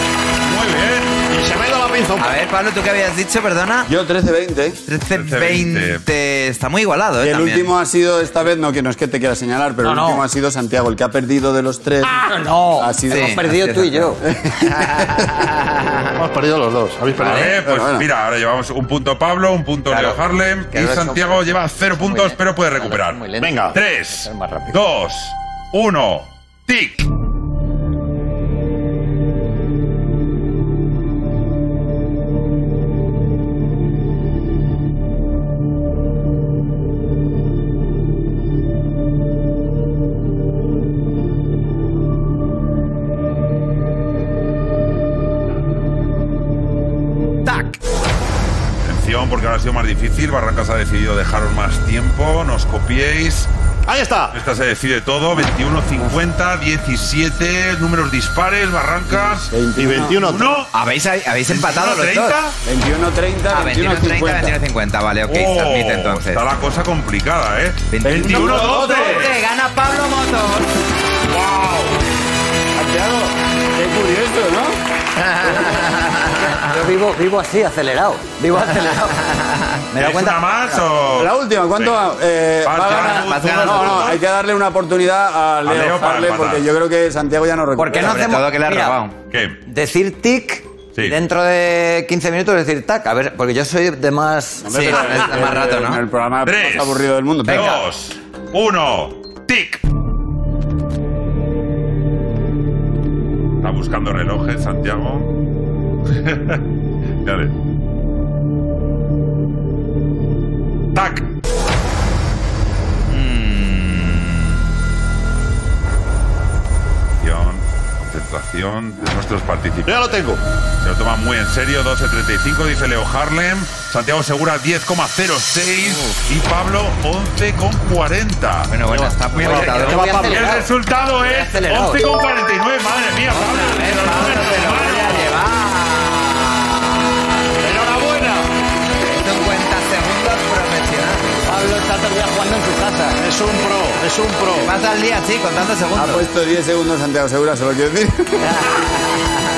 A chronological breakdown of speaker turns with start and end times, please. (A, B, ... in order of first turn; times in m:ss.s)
0:00.4-0:01.2 A
0:01.3-0:02.3 B
0:02.2-0:03.9 C
0:03.9-0:04.8 D
0:04.9-0:07.7 C
0:05.1-0:06.0 A
0:07.2-0:15.3 D
0:09.8-0:10.2 E
0:12.1-0:14.2 E
0:13.1-0:13.4 C
0:14.8-0:15.8 C
0:16.2-0:17.6 B
0:17.2-0:23.2 A
0:17.4-0:18.1 D
0:19.9-0:24.8 E
0:23.4-0:23.8 B
0:23.7-0:27.1 A
0:47.5-0:47.7 C
0:48.8-0:53.5 A
0:53.9-0:54.4 B
0:54.3-0:59.5 A
0:59.1-1:00.2 D
0:59.8-1:00.6 B
1:00.2-1:00.7 A
1:00.7-1:02.4 C
1:01.5-1:02.6 A
1:02.6-1:04.6 D
1:03.5-1:06.4 C
1:05.3-1:09.3 A
1:07.9-1:10.7 C
1:08.0-1:09.2 D
1:11.3-1:12.0 A
1:12.7-1:14.8 D
1:15.2-1:16.6 C
1:16.5-1:19.2 E
1:19.3-1:19.7 C
1:19.9-1:20.8 E
1:20.0-1:22.0 A
1:21.1-1:28.2 D
1:22.6-1:24.2 A
1:22.9-1:24.1 C
1:25.6-1:26.6 A
1:27.8-1:29.0 E
1:27.9-1:29.2 C
1:29.3-1:29.6 A
1:29.6-1:35.0 E
1:34.6-1:37.8 D
1:34.7-1:36.0 C
1:36.4-1:39.8 A
1:43.6-1:45.3 A
1:46.2-1:46.6 A
1:47.2-1:47.5 A
1:50.9-1:51.2 A
1:53.1-1:54.4 C
1:57.2-2:00.2 A
1:59.9-2:00.4 B
2:00.8-2:08.7 A
2:05.8-2:06.2 C
2:08.7-2:10.3 C
2:09.4-2:10.4 B
2:09.4-2:12.0 E
2:09.6-2:15.4 A
2:13.3-2:16.8 C
2:17.6-2:18.4 B
2:19.0-2:21.5 C
2:21.4-2:23.2 E
2:23.2-2:24.7 B
2:24.6-2:26.2 C
2:25.9-2:28.7 D